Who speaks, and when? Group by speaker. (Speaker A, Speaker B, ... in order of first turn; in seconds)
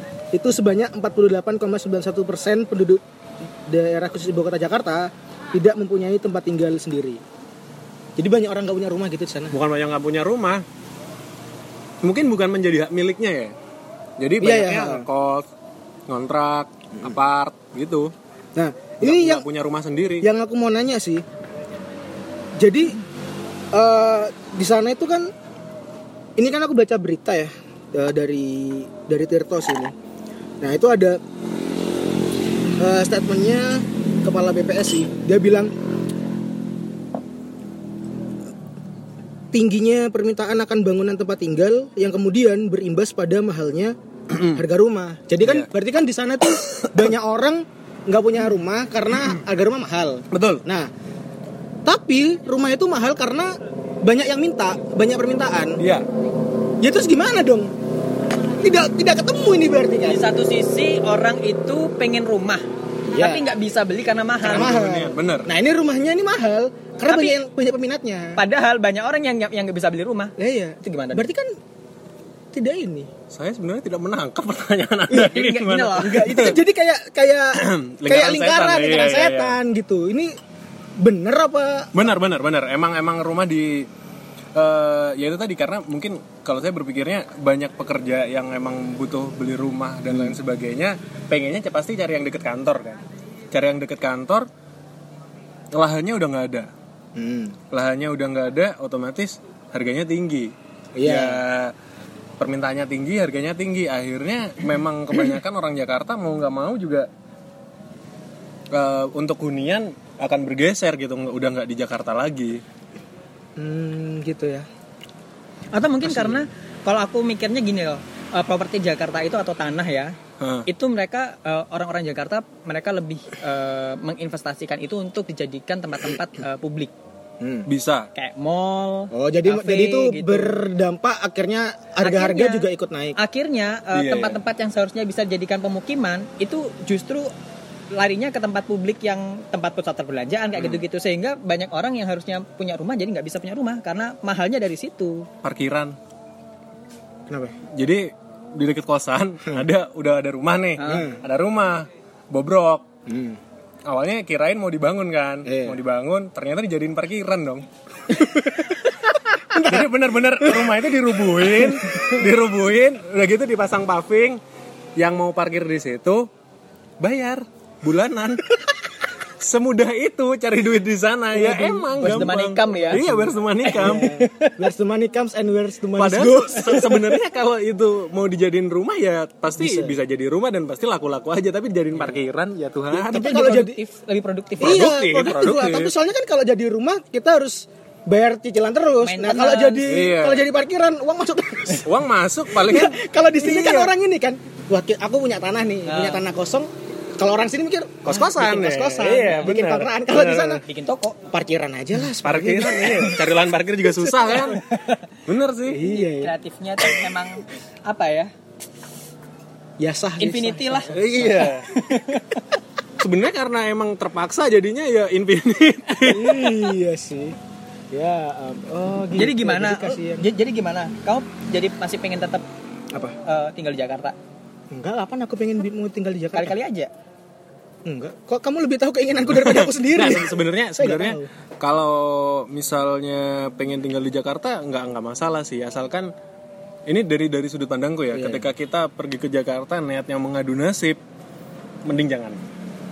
Speaker A: 0.3-3.0, 3.7-7.2, 8.2-9.6, 14.4-15.1, 18.6-19.4, 20.2-21.2, 22.6-23.0, 23.7-25.3, 26.4-29.9, 30.6-31.2, 32.8-35.7, 39.5-44.0, 44.5-50.9, 51.9-55.8, 56.8-57.7, 58.6-60.2, 63.1-63.5, 64.5-68.4, 70.4-71.5, 72.5-73.1, 76.0-80.3, 81.0-81.9, 90.1-90.3, 97.2-97.6, 101.0-101.4, 113.6-114.7, 116.0-116.4, 127.4-127.7, 129.1-133.2, 147.3-147.6, 150.8-151.2, 153.1-153.4, 155.4-155.8, 159.5-159.9, 172.0-172.3, 172.9-177.2, 179.6-180.0, 182.9-183.8, 184.6-191.9, 192.5-200.6, 201.3-203.2, 205.7-206.3, 209.8-211.6, 216.1-217.4, 217.9-220.3, 224.7-226.6, 227.8-231.3, 238.1-238.5
Speaker B: 9.5-10.6, 12.0-13.5, 14.2-15.5, 16.1-18.1, 19.0-20.3, 44.3-44.6, 45.4-45.7, 46.8-47.1, 50.3-50.6, 55.8-56.1, 64.5-65.5, 73.3-76.6, 77.5-79.6, 81.9-83.9, 84.5-94.5, 95.7-96.7, 97.7-100.5, 101.0-101.7, 102.4-107.1, 108.7-112.6, 120.4-120.7, 127.7-128.1, 133.9-134.4, 145.4-146.0, 147.7-152.9, 153.9-158.8, 159.6-164.4, 165.0-166.3, 167.0-168.7, 169.4-174.1, 176.0-183.5, 184.6-185.9, 189.9-190.4, 191.8-193.9, 198.1-200.6, 202.1-204.6, 205.3-205.8, 210.9-211.7, 213.0-216.6, 229.3-236.1, 236.9-241.0, 241.9-242.4
Speaker C: 60.0-64.8, 67.1-67.4, 68.4-71.3, 75.1-76.5, 115.7-126.9, 128.1-130.6, 132.0-137.3, 137.9-145.3, 150.8-151.1, 171.4-173.0, 173.6-174.6, 183.1-184.9, 189.0-189.9, 195.9-196.2, 200.6-201.2, 204.1-205.1, 205.8-208.3, 210.2-212.6, 219.1-222.5, 223.2-224.2, 226.3-226.9